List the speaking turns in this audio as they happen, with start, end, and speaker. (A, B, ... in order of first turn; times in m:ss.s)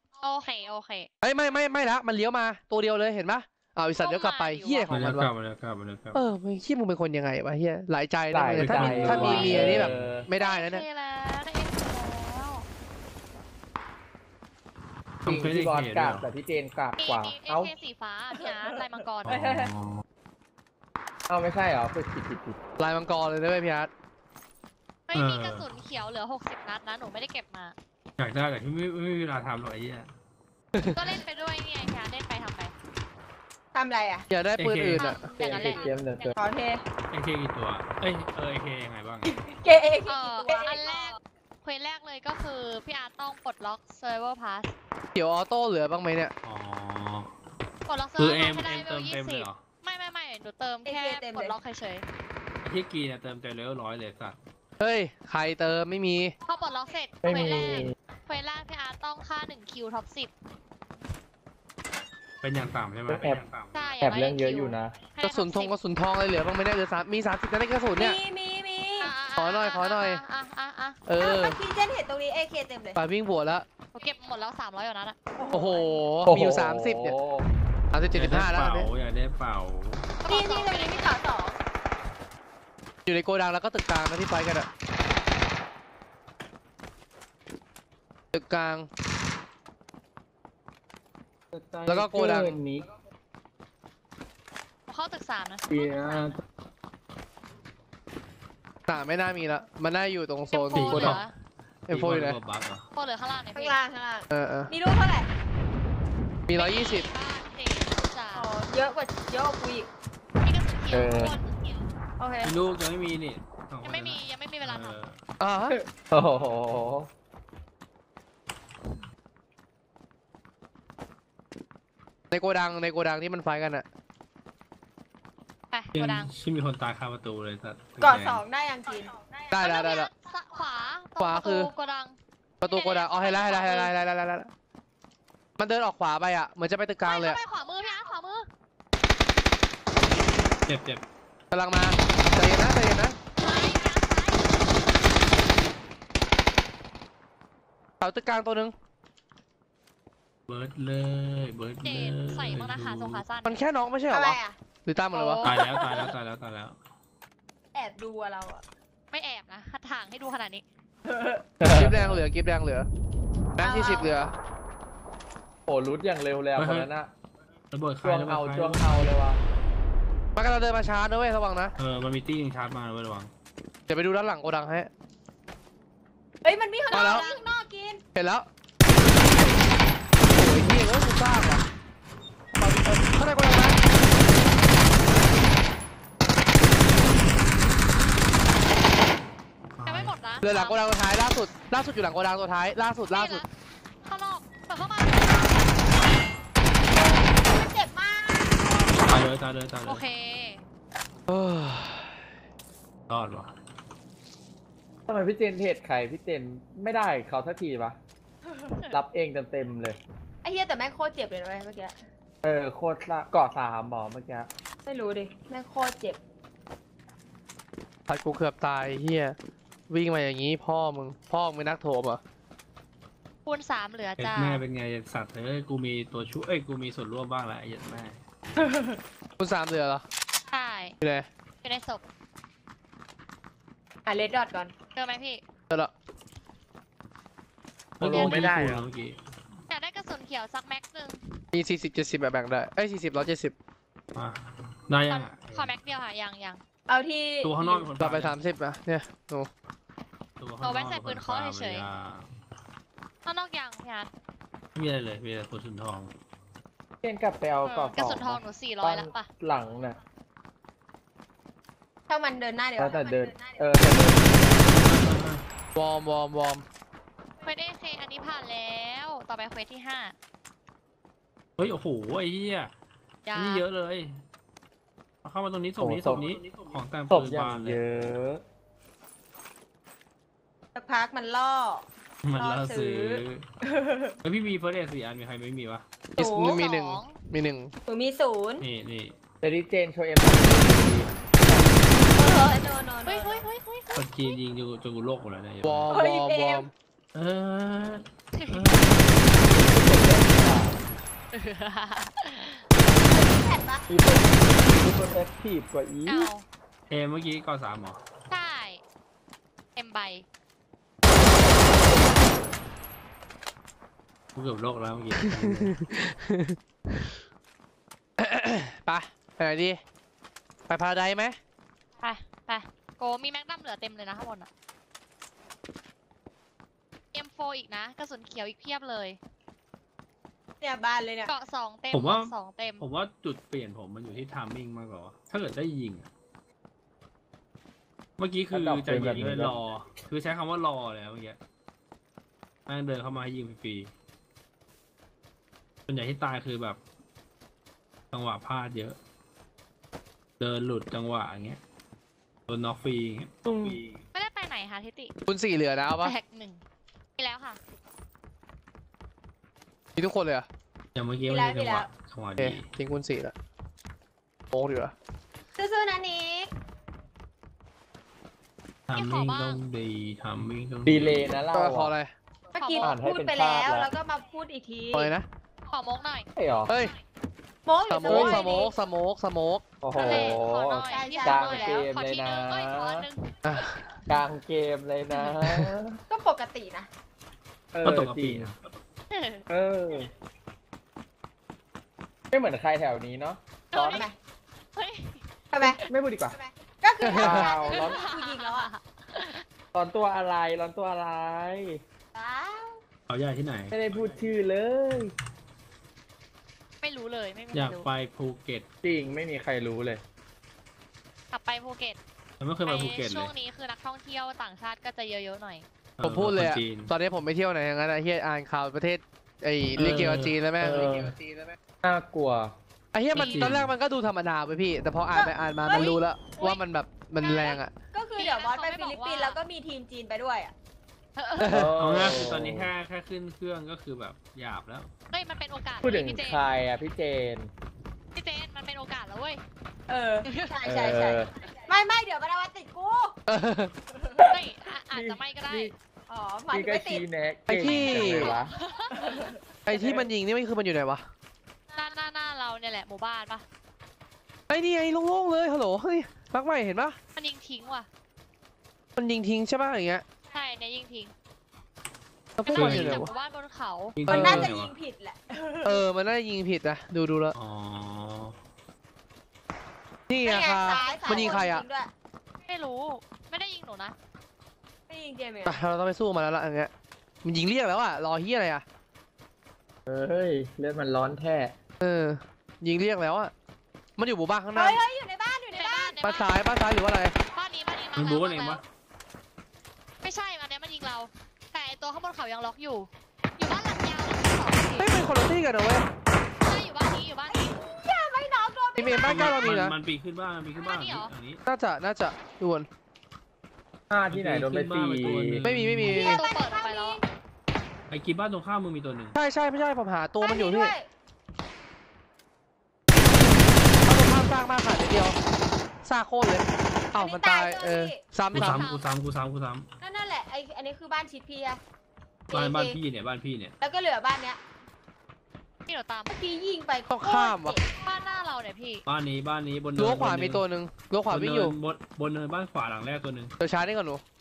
0:00.2-0:01.1 A
0:01.2-0:05.3 B
0:04.0-0:04.9 A
0:04.9-0:06.2 C
0:06.1-0:10.8 B
0:08.3-0:10.3 D
0:08.6-0:10.1 C
0:09.1-0:09.6 A
0:10.4-0:12.6 A
0:15.2-0:16.3 C
0:15.2-0:17.7 D
0:17.0-0:19.4 A
0:19.2-0:20.0 C
0:19.3-0:19.7 D
0:21.3-0:22.6 D
0:22.8-0:23.9 B
0:25.1-0:27.7 A
0:25.1-0:25.7 C
0:28.2-0:30.1 C
0:30.7-0:31.0 B
0:30.8-0:32.7 A
0:33.7-0:34.3 E
0:34.3-0:35.3 B
0:34.6-0:35.1 C
0:35.0-0:36.3 A
0:35.4-0:36.3 D
0:36.4-0:36.8 E
0:37.1-0:39.3 C
0:39.2-0:41.0 E
0:40.1-0:44.7 A
0:45.1-0:46.3 B
0:46.4-0:47.3 C
0:47.8-0:52.1 A
0:48.2-0:49.6 C
0:50.8-0:51.6 E
0:52.6-0:54.4 C
0:54.8-0:56.3 B
0:56.4-1:00.3 A
0:57.2-0:57.9 D
1:02.4-1:03.9 C
1:03.1-1:03.4 D
1:03.7-1:05.7 A
1:04.0-1:04.9 D
1:05.2-1:08.2 B
1:07.9-1:09.1 E
1:09.0-1:11.0 A
1:09.4-1:10.2 B
1:11.1-1:11.6 B
1:11.2-1:13.0 E
1:13.0-1:13.6 B
1:13.9-1:15.2 A
1:15.4-1:16.0 E
1:15.5-1:17.2 B
1:16.2-1:17.4 D
1:17.9-1:18.9 B
1:18.2-1:20.2 C
1:20.2-1:21.1 A
1:20.3-1:21.6 E
1:23.0-1:24.7 B
1:28.3-1:28.9 B
1:31.5-1:32.9 D
1:31.8-1:32.6 B
1:34.9-1:36.4 A
1:35.7-1:36.4 D
1:38.9-1:41.2 B
1:40.5-1:41.3 A
1:40.7-1:41.2 C
1:41.9-1:42.4 B
1:41.9-1:42.9 C
1:42.9-1:43.8 A
1:43.5-1:45.3 E
1:44.3-1:44.7 B
1:46.5-1:47.1 B
1:46.5-1:48.5 A
1:48.3-1:49.9 E
1:50.4-1:51.8 A
1:50.9-1:51.4 D
1:52.2-1:52.6 E
1:52.4-1:55.2 C
1:53.8-1:55.0 A
1:55.4-1:55.7 B
1:55.7-1:57.1 D
2:02.3-2:03.8 B
2:05.7-2:06.3 A
2:05.9-2:08.4 C
2:08.0-2:09.3 E
2:09.5-2:10.1 B
2:09.6-2:14.0 A
2:11.2-2:11.7 B
2:12.6-2:14.5 B
2:15.6-2:17.4 B
2:17.0-2:18.5 A
2:20.7-2:21.0 C
2:21.5-2:23.2 B
2:23.4-2:24.6 A
2:28.0-2:28.7 B
2:30.5-2:33.2 C
2:31.8-2:33.6 A
2:33.4-2:35.4 B
2:34.1-2:34.6 E
2:35.1-2:35.6 A
2:35.4-2:36.1 E
2:35.4-2:36.8 C
2:37.7-2:38.6 E
2:39.1-2:40.6 A
2:41.1-2:41.4 E
2:41.6-2:42.2 D
2:41.7-2:42.9 B
2:43.6-2:44.3 B
2:43.6-2:44.3 E
2:45.7-2:47.1 D
2:46.6-2:46.9 C
2:47.7-2:49.1 C
2:48.0-2:49.4 D
2:50.4-2:51.7 B
2:51.8-2:53.3 C
2:53.9-2:54.9 B
2:56.4-2:58.0 E
2:56.9-2:57.4 A
2:56.9-2:57.3 B
2:58.1-2:58.4 B
3:00.3-3:01.6 B
3:02.5-3:03.8 B
3:09.8-3:10.2 C
3:09.8-3:10.8 A
3:10.4-3:13.4 B
3:13.1-3:13.5 A
3:14.0-3:15.8 A
3:16.9-3:19.0 E
3:19.1-3:20.0 C
3:19.8-3:20.6 A
3:21.3-3:22.2 B
3:23.1-3:23.5 C
3:25.1-3:28.0 D
3:28.9-3:30.0 D
3:30.4-3:32.0 E
3:32.4-3:34.5 D
3:34.8-3:36.2 E
3:38.1-3:39.4 B
3:39.9-3:42.2 B
3:43.4-3:44.6 A
3:44.2-3:48.2 C
3:48.6-3:49.0 E
3:49.4-3:50.0 B
3:50.5-3:51.0 A
3:51.0-3:51.3 B
3:51.6-3:52.0 A
3:54.0-3:54.7 E
3:54.9-3:55.4 A
3:58.0-3:59.2 C
3:58.0-3:58.9 D
3:58.1-3:58.5 A
3:59.7-4:01.4 A
4:01.5-4:03.5 B
4:04.1-4:05.7 C
4:05.1-4:06.6 A
4:06.9-4:07.9 E
4:07.4-4:08.4 C
4:08.0-4:09.5 B
4:10.4-4:12.3 C
4:10.6-4:11.9 A
4:13.2-4:14.1 A
4:14.7-4:16.1 C
4:17.0-4:20.0 D
4:17.6-4:19.3 A
4:22.1-4:23.6 E
4:22.8-4:24.7 D
4:24.6-4:25.4 C
4:25.7-4:26.6 B
4:27.4-4:30.1 A
4:31.6-4:32.7 C
4:33.2-4:33.6 A
4:33.3-4:34.2 C
4:35.2-4:38.2 C
4:35.8-4:36.2 D
4:37.1-4:38.4 D
4:40.7-4:44.2 E
4:42.2-4:43.4 C
4:44.2-4:45.8 C
4:46.2-4:46.6 E
4:46.2-4:47.7 B
4:46.4-4:47.3 A
4:47.9-4:48.6 E
4:48.6-4:49.2 C
4:49.4-4:51.1 D
4:52.1-4:53.4 E
4:53.0-4:54.4 A
4:53.9-4:55.9 C
4:55.6-4:56.7 B
4:55.9-4:56.7 E
4:57.1-4:59.1 C
4:58.4-4:58.7 A
4:59.4-5:00.8 D
5:01.3-5:02.6 A
5:03.0-5:03.8 E
5:03.9-5:06.3 D
5:06.0-5:06.4 A
5:06.9-5:08.0 C
5:08.3-5:08.8 A
5:09.8-5:10.2 A
5:14.3-5:15.7 C
5:15.2-5:17.1 B
5:18.2-5:19.8 B
5:20.7-5:21.4 B
5:22.0-5:24.5 A
5:27.1-5:29.2 A
5:30.6-5:31.3 E
5:31.2-5:32.8 A
5:31.9-5:36.1 C
5:38.2-5:41.4 C
5:38.5-5:39.6 D
5:42.7-5:43.9 C
5:45.9-5:46.8 C
5:48.1-5:49.0 C
5:50.4-5:51.6 C
5:52.5-5:54.0 C
5:53.4-5:53.8 E
5:54.1-5:55.1 A
5:55.3-5:56.1 B
5:55.9-5:56.6 A
5:57.2-5:57.6 A
6:00.0-6:00.5 B
6:00.9-6:02.6 C
6:01.3-6:01.9 E
6:02.4-6:03.3 B
6:04.5-6:04.9 B
6:05.6-6:06.5 E
6:08.9-6:11.4 C
6:08.9-6:09.6 A
6:10.8-6:11.9 D
6:11.5-6:12.1 B
6:12.5-6:15.1 E
6:12.6-6:13.0 A
6:12.8-6:13.9 D
6:14.9-6:15.2 B
6:15.7-6:16.3 A
6:16.4-6:16.7 D
6:16.7-6:16.9 B
6:17.6-6:18.7 E
6:17.9-6:20.3 B
6:18.1-6:18.6 A
6:18.1-6:18.5 D
6:19.8-6:23.1 D
6:19.9-6:24.0 A
6:20.9-6:21.8 E
6:23.4-6:23.8 B
6:24.1-6:26.0 D
6:26.1-6:26.9 E
6:27.7-6:28.5 D
6:27.8-6:28.6 C
6:29.1-6:29.4 A
6:29.5-6:30.1 D
6:32.3-6:33.4 D
6:33.7-6:34.1 A
6:33.7-6:34.2 E
6:34.8-6:35.8 A
6:35.5-6:38.7 E
6:35.8-6:36.4 D
6:37.0-6:37.5 B
6:37.1-6:38.0 D
6:37.3-6:39.4 A
6:39.7-6:41.8 D
6:42.1-6:42.8 E
6:43.1-6:44.2 C
6:43.7-6:45.1 D
6:46.8-6:47.9 A
6:47.5-6:48.6 C
6:48.8-6:50.0 D
6:51.3-6:52.0 A
6:52.4-6:53.3 C
6:52.6-6:55.6 A
6:56.0-6:56.9 C
6:56.0-7:01.6 B
6:59.7-7:00.4 C
7:00.6-7:01.1 D
7:01.8-7:02.5 D
7:02.9-7:07.7 B
7:03.1-7:03.7 C
7:03.2-7:03.5 A
7:05.1-7:06.0 E
7:07.2-7:10.5 E
7:08.1-7:09.4 A
7:11.2-7:11.6 A
7:11.4-7:11.7 B
7:11.4-7:12.7 D
7:11.8-7:14.9 C
7:15.1-7:16.4 A
7:15.8-7:17.5 D
7:18.1-7:19.4 A
7:19.9-7:23.2 E
7:20.2-7:20.6 A
7:20.6-7:21.3 D
7:23.3-7:23.7 B
7:24.3-7:25.7 A
7:24.9-7:25.7 D
7:26.1-7:27.0 E
7:26.5-7:28.5 D
7:27.5-7:28.4 B
7:27.6-7:29.3 A
7:28.9-7:29.8 E
7:29.6-7:31.0 B
7:31.7-7:33.4 A
7:34.5-7:37.0 B
7:37.2-7:37.9 A
7:39.0-7:40.0 B
7:40.3-7:41.1 A
7:42.4-7:43.1 B
7:42.4-7:44.0 A
7:42.5-7:43.0 C
7:44.0-7:44.7 C
7:44.0-7:45.8 E
7:44.1-7:44.5 B
7:45.6-7:47.3 B
7:47.4-7:48.4 C
7:50.1-7:51.6 B
7:50.2-7:51.9 E
7:50.6-7:51.4 A
7:52.4-7:53.9 A
7:54.9-7:55.6 E
7:55.4-7:56.7 B
7:57.2-7:58.6 B
7:59.9-8:01.5 D
8:01.8-8:03.3 B
8:04.0-8:04.8 B
8:04.5-8:06.0 E
8:05.5-8:06.3 A
8:06.0-8:07.2 B
8:07.3-8:08.6 A
8:08.0-8:08.6 C
8:10.0-8:14.9 A
8:14.8-8:15.8 B
8:16.4-8:17.5 A
8:17.3-8:19.4 E
8:18.8-8:19.7 B
8:18.9-8:21.4 C
8:20.6-8:21.1 A
8:21.4-8:22.7 B
8:23.9-8:25.4 D
8:24.1-8:26.1 C
8:25.4-8:26.2 B
8:25.8-8:27.0 E
8:25.9-8:27.0 A
8:27.9-8:29.2 C
8:29.1-8:30.7 B
8:30.2-8:30.9 E
8:33.8-8:35.2 B
8:35.8-8:38.6 B
8:36.9-8:38.0 E
8:38.3-8:39.7 C
8:38.3-8:38.8 A
8:39.8-8:41.6 E
8:42.3-8:42.8 E
8:42.3-8:43.5 C
8:43.6-8:44.4 E
8:45.7-8:46.2 A
8:46.1-8:47.7 E
8:46.9-8:47.6 B
8:47.8-8:48.8 A
8:48.9-8:50.4 C
8:49.8-8:51.5 B
8:51.1-8:53.3 C
8:53.4-8:54.0 B